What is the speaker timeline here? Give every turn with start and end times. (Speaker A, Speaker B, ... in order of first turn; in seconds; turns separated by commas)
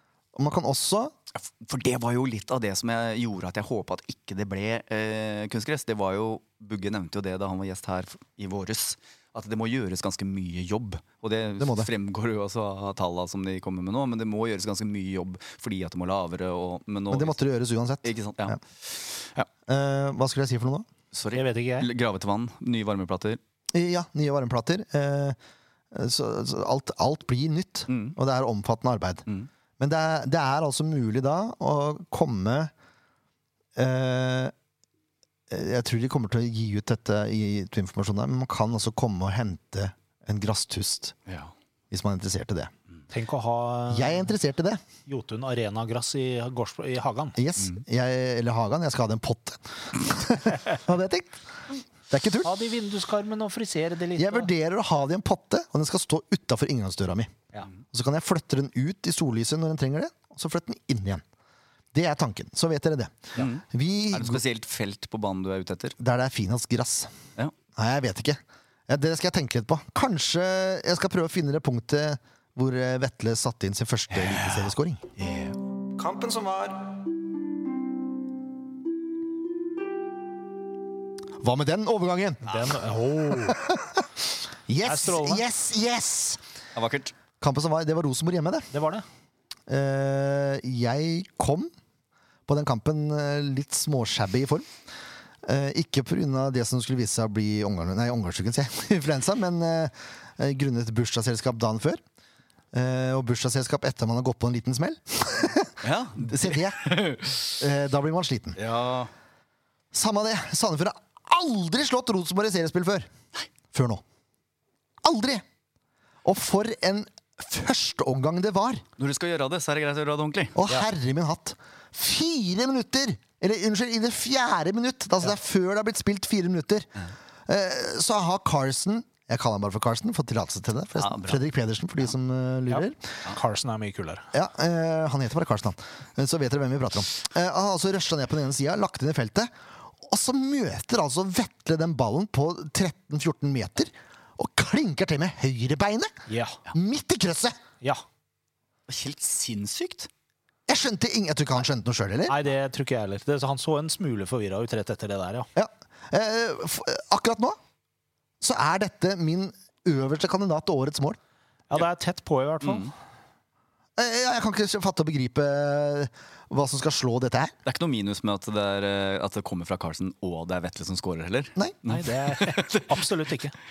Speaker A: 0.3-1.1, Speaker B: 1.4-17.4, Speaker A: 11.6-11.9, Speaker A: 17.1-18.6, Speaker B: 18.0-19.5, Speaker A: 19.7-20.9, Speaker B: 21.1-23.4, Speaker C: 21.3-21.9, Speaker A: 23.7-25.4, Speaker A: 25.9-29.3, Speaker B: 27.9-28.2, Speaker A: 29.8-32.7, Speaker A: 33.8-34.5, Speaker A: 35.5-41.1, Speaker B: 41.3-41.5, Speaker A: 41.9-42.7, Speaker C: 43.1-44.3, Speaker A: 43.9-44.8, Speaker C: 45.1-47.4, Speaker A: 47.4-51.4, Speaker A: 52.1-52.5, Speaker C: 52.4-54.5, Speaker A: 54.2-57.3, Speaker A: 57.9-61.2, Speaker A: 61.9-64.4, Speaker B: 63.4-66.0, Speaker A: 66.0-67.1, Speaker A: 67.8-75.1, Speaker B: 74.1-75.6, Speaker A: 76.0-76.9, Speaker A: 81.4-82.5, Speaker C: 82.5-83.6, Speaker A: 83.3-86.4, Speaker C: 84.8-85.4, Speaker B: 86.8-87.1, Speaker A: 87.4-88.7, Speaker C: 88.7-89.0, Speaker A: 89.7-91.7, Speaker A: 92.5-94.7, Speaker A: 95.4-102.0, Speaker A: 102.7-107.0, Speaker B: 105.8-107.6, Speaker A: 107.6-108.6, Speaker B: 108.6-109.1, Speaker A: 109.9-113.1, Speaker A: 113.7-114.0, Speaker A: 115.0-115.4, Speaker A: 116.2-118.8, Speaker B: 119.0-120.6, Speaker A: 120.5-126.9, Speaker A: 127.5-133.0, Speaker B: 131.0-131.4, Speaker C: 132.7-134.3, Speaker A: 134.3-147.6, Speaker C: 146.3-146.6, Speaker B: 148.9-150.1, Speaker A: 150.7-152.4, Speaker C: 152.3-155.5, Speaker A: 155.6-157.6, Speaker A: 158.4-161.2, Speaker C: 161.7-162.9, Speaker B: 162.6-162.9, Speaker A: 164.0-167.5, Speaker B: 167.7-173.0, Speaker C: 171.9-173.6